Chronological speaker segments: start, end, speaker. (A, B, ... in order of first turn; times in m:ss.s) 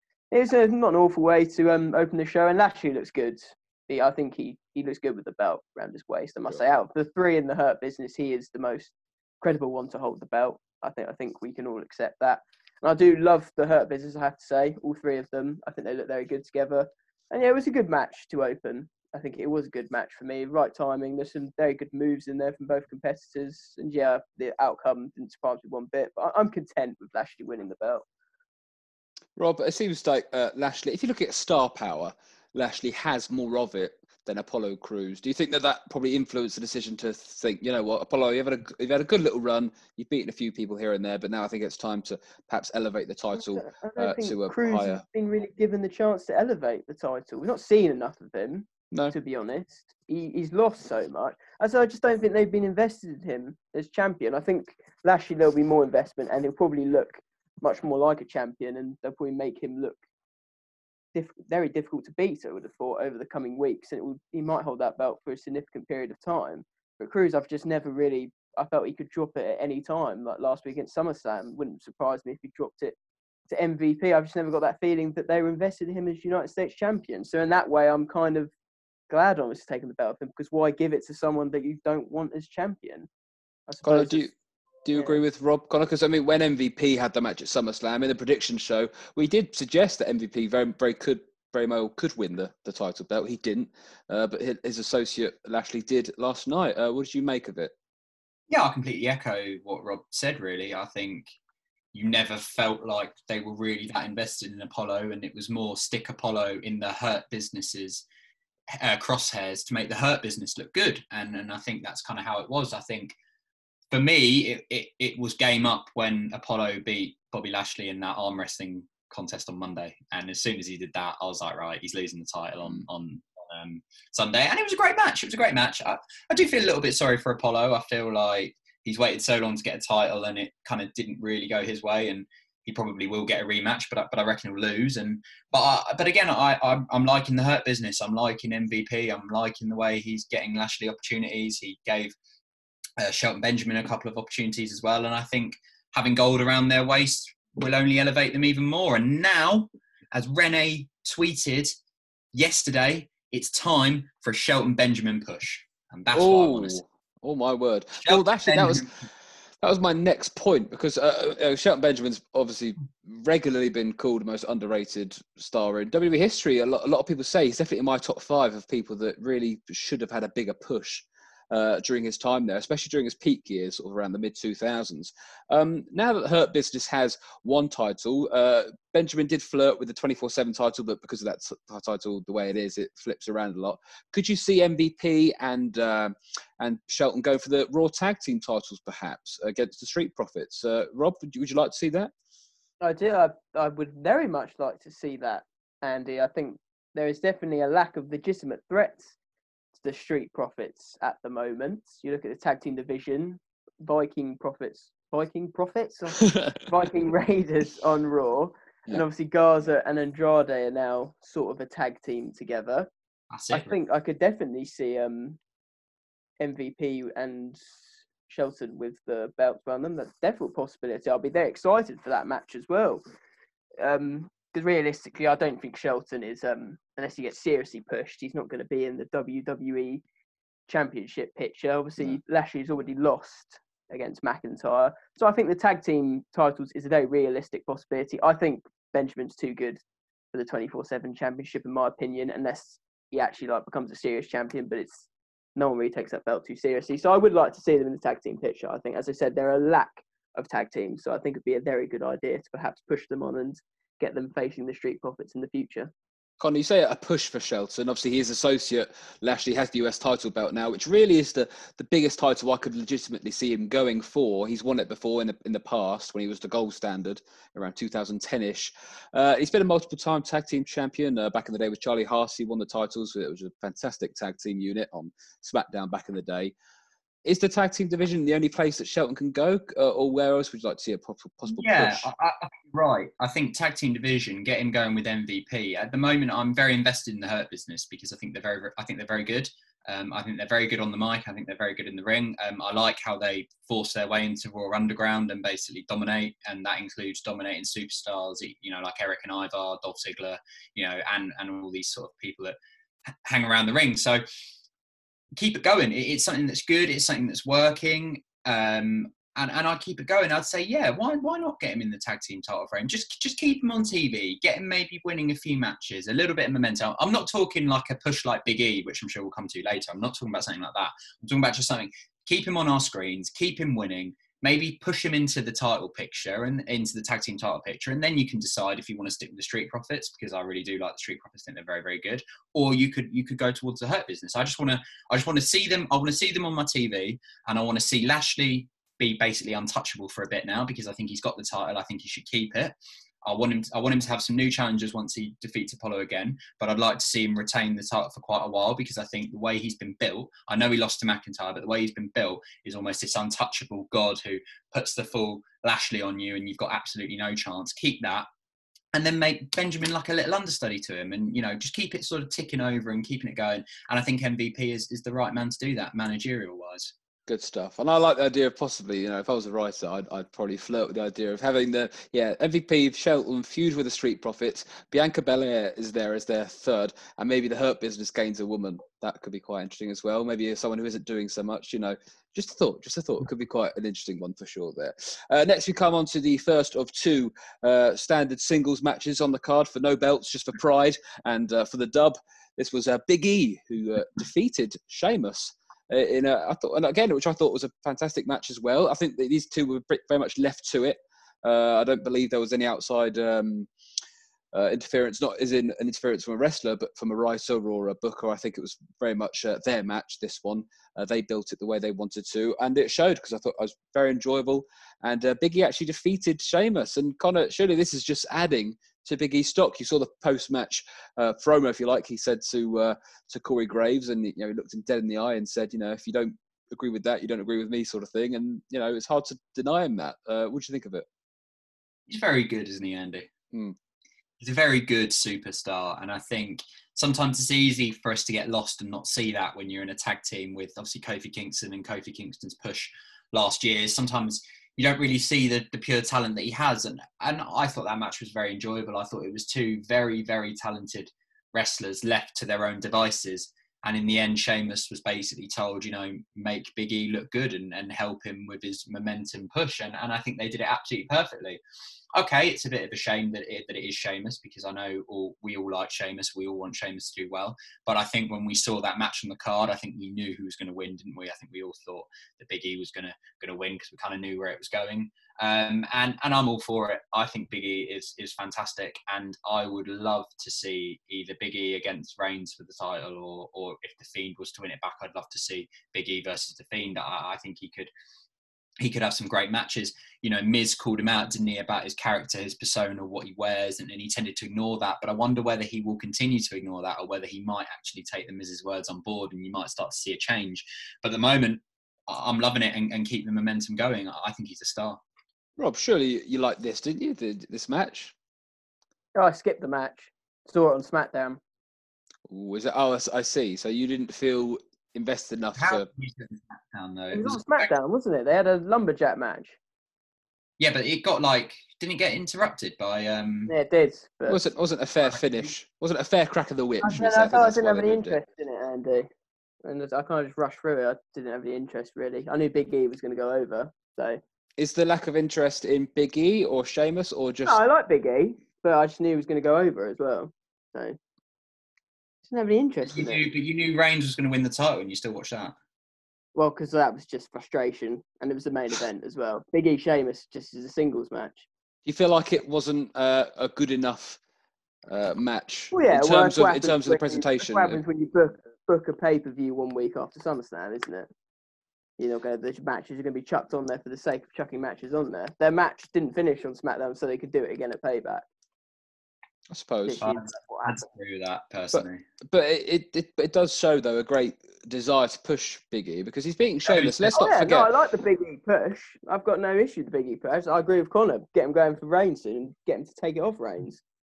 0:00.3-0:28.0 A
0:29.4-0:45.0 B
0:43.3-1:00.0 A
1:01.1-1:13.0 A
1:13.5-1:18.5 A
1:19.1-1:23.1 A
1:23.7-1:24.3 A
1:23.8-1:24.3 B
1:24.8-1:37.7 B
1:24.9-1:25.2 A
1:38.5-1:41.3 C
1:41.9-1:48.0 C
1:48.7-1:53.2 C
1:53.9-2:22.2 C
2:23.0-2:31.7 C
2:32.3-2:36.8 C
2:36.1-2:38.9 B
2:38.0-2:38.9 C
2:39.6-3:12.1 B
3:12.8-3:19.2 A
3:19.7-3:32.9 A
3:33.3-3:33.8 C
3:33.5-3:35.4 A
3:36.4-3:43.0 A
3:43.8-3:50.0 A
3:50.7-3:59.8 A
4:00.3-4:15.9 A
4:16.4-4:36.5 B
4:37.2-4:42.1 B
4:41.6-5:02.6 C
5:03.2-5:04.2 C
5:05.4-5:58.3 C
5:58.9-6:06.9 C
6:07.3-6:43.7 B
6:44.5-7:11.1 B
7:12.1-7:13.3 C
7:14.4-7:41.6 C
7:42.2-8:07.9 C
8:08.8-8:25.0 C
8:25.6-8:28.1 B
8:29.2-8:31.4 A
8:32.3-8:35.9 B
8:35.6-8:37.7 C
8:37.1-8:39.6 A
8:40.6-8:43.5 C
8:43.5-8:44.4 A
8:44.3-8:48.2 B
8:46.8-8:49.1 A
8:49.6-8:54.2 A
8:54.6-8:57.6 B
8:57.5-9:01.0 A
9:02.3-9:03.2 A
9:02.9-9:05.6 C
9:06.4-9:11.5 A
9:11.9-9:14.2 B
9:14.9-9:17.8 B
9:15.7-9:21.1 A
9:22.0-9:28.3 A
9:29.5-9:30.1 B
9:29.8-9:30.8 A
9:30.0-9:32.0 C
9:31.7-9:37.7 B
9:36.7-9:37.2 C
9:37.1-9:43.8 A